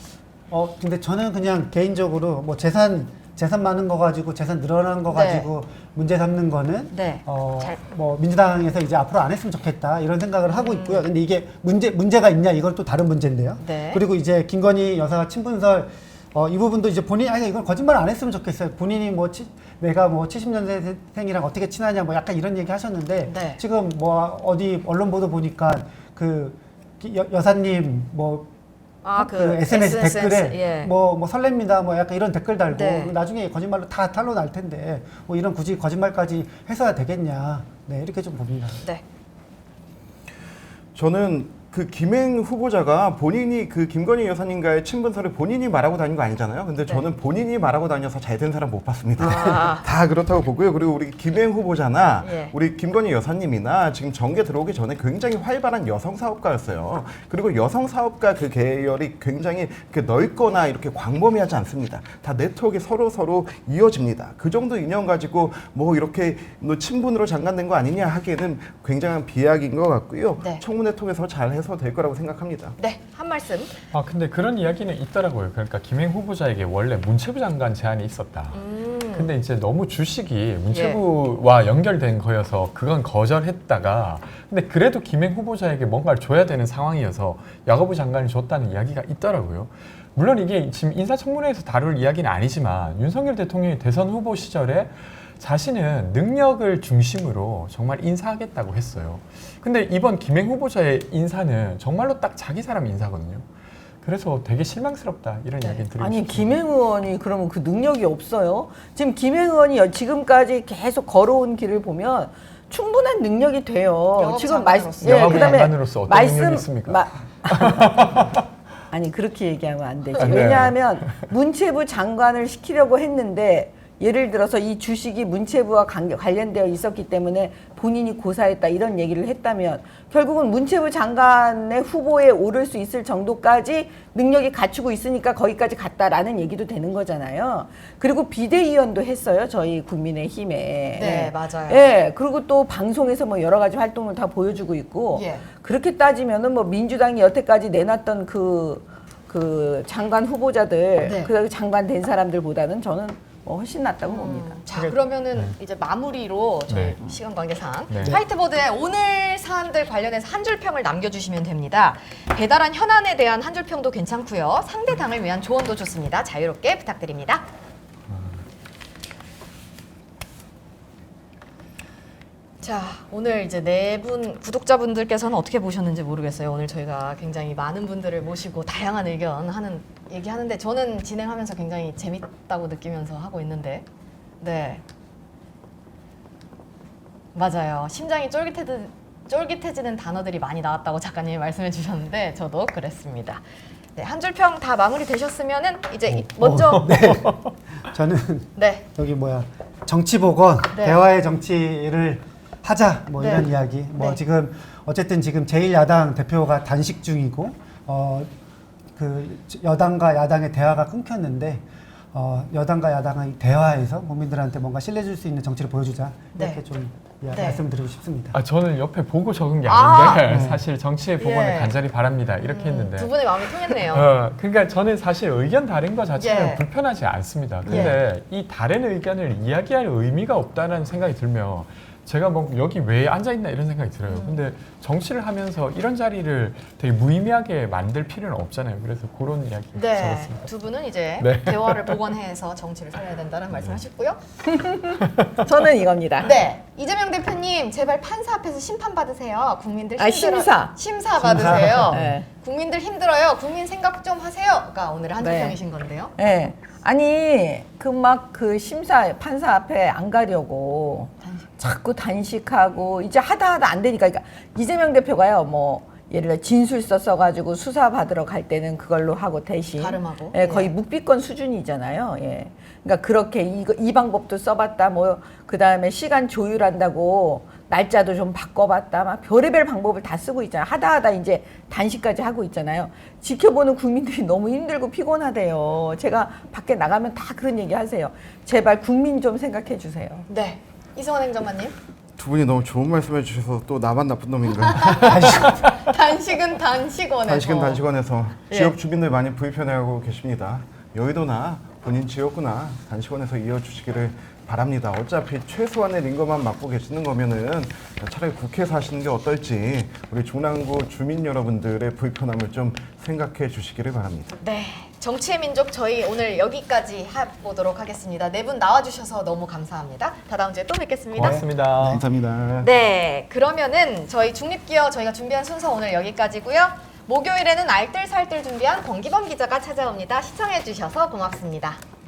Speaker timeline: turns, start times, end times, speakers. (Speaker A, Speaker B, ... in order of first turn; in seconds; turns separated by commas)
Speaker A: 0.5-28.5, Speaker B: 5.1-5.5, Speaker B: 6.9-7.8, Speaker B: 10.5-11.1, Speaker B: 13.6-14.0, Speaker B: 23.3-23.6, Speaker B: 29.0-30.9, Speaker A: 29.2-38.8, Speaker B: 32.7-33.1, Speaker C: 40.9-72.8, Speaker B: 49.2-49.8, Speaker B: 52.2-52.5, Speaker B: 72.8-73.8, Speaker D: 73.9-103.5, Speaker B: 78.5-79.3, Speaker B: 80.7-81.0, Speaker D: 104.0-106.6, Speaker E: 106.0-117.9, Speaker B: 114.1-115.7, Speaker D: 115.0-118.4, Speaker E: 118.9-154.6, Speaker D: 120.2-121.3, Speaker B: 140.9-141.9, Speaker B: 145.1-145.4, Speaker B: 151.0-151.3, Speaker B: 154.1-167.5, Speaker D: 154.7-155.5, Speaker D: 156.7-157.0, Speaker D: 157.9-158.2, Speaker D: 168.1-168.4, Speaker B: 172.6-183.8, Speaker B: 184.4-184.8, Speaker B: 187.3-193.4, Speaker B: 193.9-197.0, Speaker A: 196.1-208.3, Speaker D: 196.9-197.5, Speaker B: 198.6-198.9, Speaker B: 200.7-201.0, Speaker B: 203.2-204.2, Speaker A: 208.9-218.4, Speaker B: 216.3-216.6, Speaker B: 217.3-217.7, Speaker D: 218.3-240.4, Speaker B: 219.7-220.5, Speaker A: 220.3-220.6, Speaker B: 221.2-221.7, Speaker B: 222.4-224.1, Speaker B: 226.2-226.6, Speaker B: 227.7-228.0, Speaker A: 227.7-227.9, Speaker B: 234.1-234.4, Speaker B: 239.7-244.2, Speaker D: 241.2-242.0, Speaker D: 243.5-243.8, Speaker E: 244.4-246.4, Speaker D: 245.0-245.4, Speaker B: 246.2-256.1, Speaker E: 250.0-250.7, Speaker A: 251.2-252.0, Speaker E: 251.3-252.3, Speaker D: 251.8-252.2, Speaker E: 255.2-255.6, Speaker E: 256.2-290.3, Speaker B: 261.2-261.5, Speaker B: 269.8-270.7, Speaker B: 290.3-291.7, Speaker C: 292.2-295.6, Speaker B: 294.7-297.8, Speaker A: 295.1-295.5, Speaker C: 297.3-314.4, Speaker B: 298.5-298.7, Speaker B: 314.4-321.4, Speaker D: 321.1-322.0, Speaker C: 321.2-322.7, Speaker B: 322.6-331.8